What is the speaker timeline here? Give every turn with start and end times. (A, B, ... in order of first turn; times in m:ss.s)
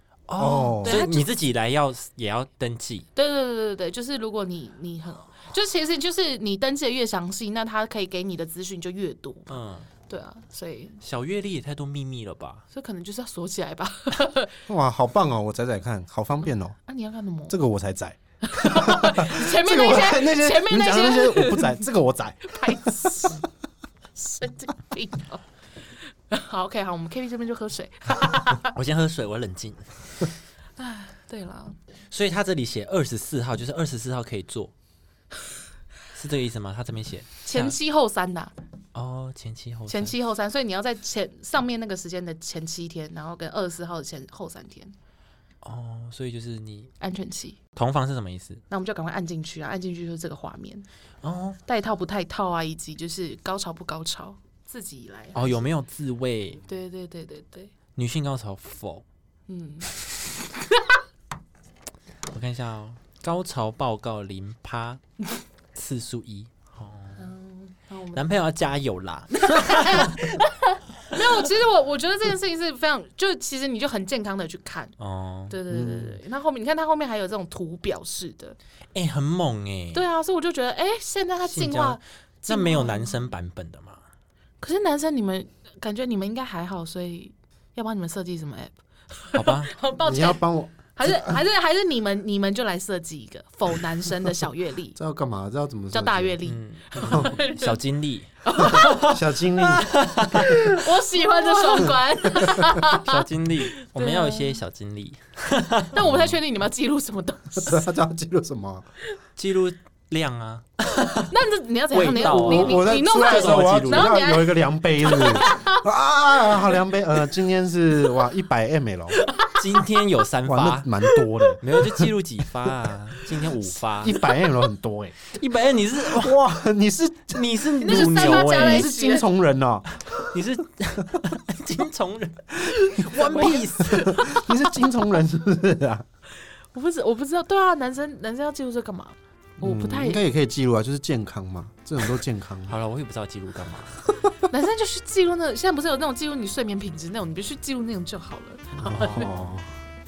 0:00.3-0:03.0 A
0:00.4-0:01.0 B
0:00.7-0:01.3 C
0:03.1-0:11.0 C
0:09.5-0:09.9 A
0:11.0-0:12.6 A
0:12.7-0:14.5 C
0:14.7-0:16.8 B
0:16.9-0:17.6 C
0:17.5-0:23.3 B
0:18.4-0:21.8 C
0:22.5-0:23.4 C
0:24.2-0:25.4 C
0:26.3-0:28.7 C
0:28.6-0:30.3 A
0:30.8-0:31.8 C
0:32.1-0:34.7 A
0:36.1-0:37.8 A
0:37.4-0:38.5 C
0:38.9-0:40.1 A
0:39.9-0:44.9 C
0:45.6-0:46.9 A
0:47.0-0:47.6 C
0:47.8-0:48.6 A
0:48.7-0:50.9 C
0:51.2-0:51.6 A
0:51.7-0:55.7 C
0:55.3-0:56.6 A
0:56.7-0:57.7 C
0:58.0-0:59.0 A
0:59.5-1:01.0 C
1:02.3-1:05.0 A
1:05.7-1:07.3 A
1:07.2-1:08.2 C
1:08.1-1:10.4 A
1:09.4-1:14.9 C
1:15.0-1:15.6 A
1:15.5-1:18.6 C
1:15.7-1:16.2 B
1:18.9-1:20.0 A
1:19.9-1:23.3 C
1:21.5-1:24.0 A
1:24.6-1:35.0 C
1:29.3-1:29.7 A
1:30.0-1:31.4 B
1:35.0-1:36.4 B
1:35.9-1:37.8 C
1:36.4-1:39.2 A
1:38.4-1:44.6 C
1:38.7-1:40.0 B
1:39.8-1:40.6 A
1:42.9-1:46.0 A
1:45.9-1:47.8 C
1:47.6-1:48.9 B
1:49.4-1:51.2 A
1:51.2-1:55.8 C
1:51.9-1:54.2 A
1:52.2-1:59.2 B
1:59.2-1:59.8 C
1:59.5-2:00.9 A
2:00.4-2:01.6 B
2:01.1-2:02.0 C
2:01.6-2:04.2 A
2:04.0-2:05.2 B
2:05.3-2:06.4 A
2:06.0-2:09.9 B
2:07.3-2:08.9 A
2:07.8-2:09.3 C
2:10.1-2:14.3 A
2:12.7-2:14.6 C
2:13.1-2:16.0 B
2:16.7-2:20.2 C
2:19.6-2:22.8 B
2:22.7-2:24.2 A
2:24.4-2:29.3 C
2:28.8-2:29.7 B